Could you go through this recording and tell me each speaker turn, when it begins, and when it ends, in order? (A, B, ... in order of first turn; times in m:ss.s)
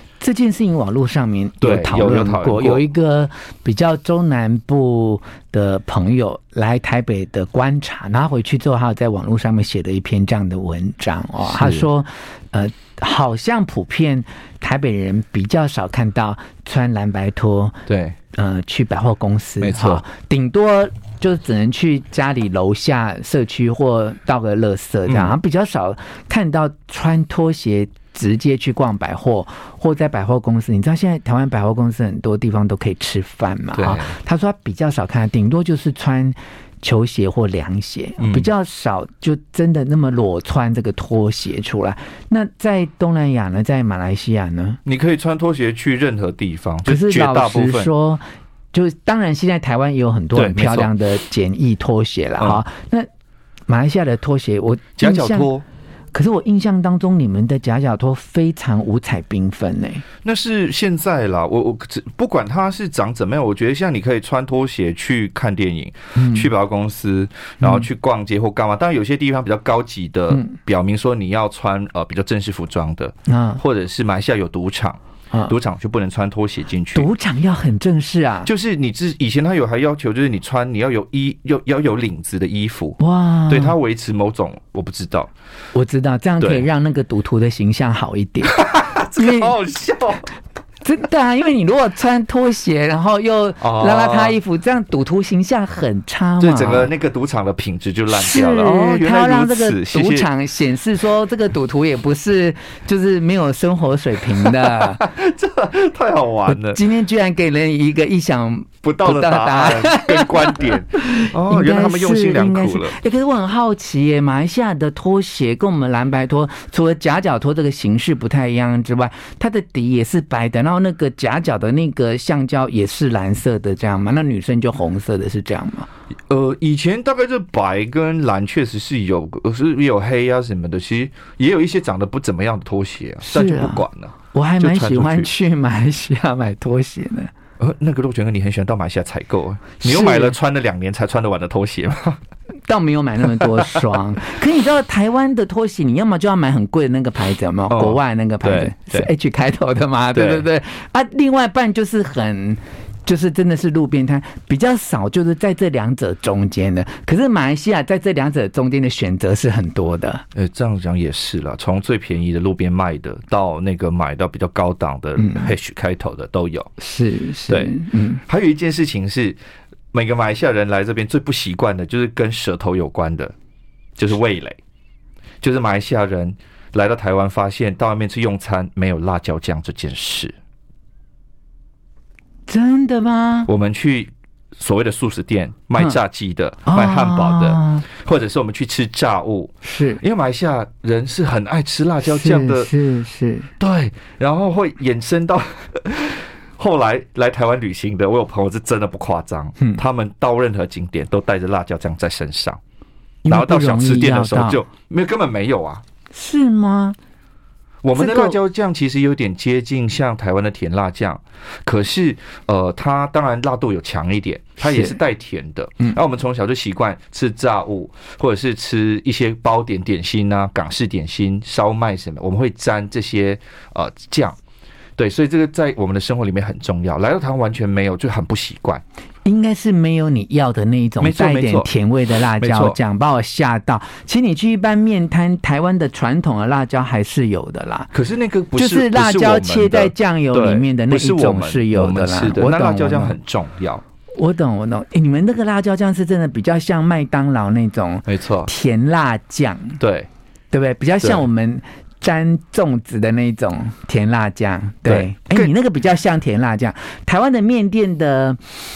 0:00.2-0:17.8 A
0:01.6-0:02.8 B
0:11.4-0:11.9 B
0:17.9-0:18.2 B
0:18.3-0:44.8 A
0:19.6-0:20.0 B
0:25.1-0:25.4 B
0:33.8-0:34.2 B
0:38.2-0:38.5 B
0:44.8-0:47.9 B
0:46.8-0:53.1 A
0:50.4-0:50.9 B
0:53.7-0:55.5 A
0:55.0-0:55.6 B
0:56.1-1:00.0 A
1:00.2-1:17.1 B
1:06.2-1:06.5 A
1:07.6-1:07.9 A
1:10.3-1:10.6 A
1:13.3-1:13.6 A
1:17.0-1:18.5 A
1:18.4-1:25.3 B
1:23.0-1:23.8 A
1:25.8-1:28.6 A
1:26.4-1:26.7 B
1:28.4-1:30.2 B
1:29.2-1:29.5 A
1:30.8-1:36.9 A
1:33.6-1:34.4 B
1:36.4-1:40.3 B
1:38.1-1:45.0 A
1:44.4-1:46.8 B
1:46.5-2:05.9 A
1:48.8-1:53.0 B
2:06.3-2:15.3 B
2:13.2-2:17.3 A
2:17.6-2:22.2 B
2:19.8-2:20.4 A
2:22.7-2:40.2 A
2:23.3-2:24.0 B
2:27.7-2:29.1 B
2:30.1-2:30.5 B
2:40.4-2:46.7 B
2:45.2-2:45.5 A
2:46.8-2:48.2 A
2:47.5-2:49.4 B
2:49.9-2:53.3 B
2:54.0-2:54.6 B
2:55.4-3:00.3 B
3:02.5-3:03.5 A
3:03.5-3:12.7 B
3:06.7-3:07.9 A
3:09.6-3:10.0 A
3:12.0-3:13.5 A
3:13.6-3:22.6 B
3:23.2-3:24.6 A
3:23.3-3:25.8 B
3:26.1-3:27.0 A
3:27.8-3:44.4 B
3:28.0-3:28.4 A
3:34.6-3:35.0 A
3:45.0-3:48.8 B
3:49.2-3:57.9 A
3:51.0-3:51.7 B
3:52.3-3:52.8 B
3:57.9-4:03.8 B
3:58.6-4:03.2 A
4:04.2-4:09.8 A
4:08.1-4:08.5 B
4:09.8-4:10.1 B
4:10.5-4:18.4 A
4:14.8-4:15.5 B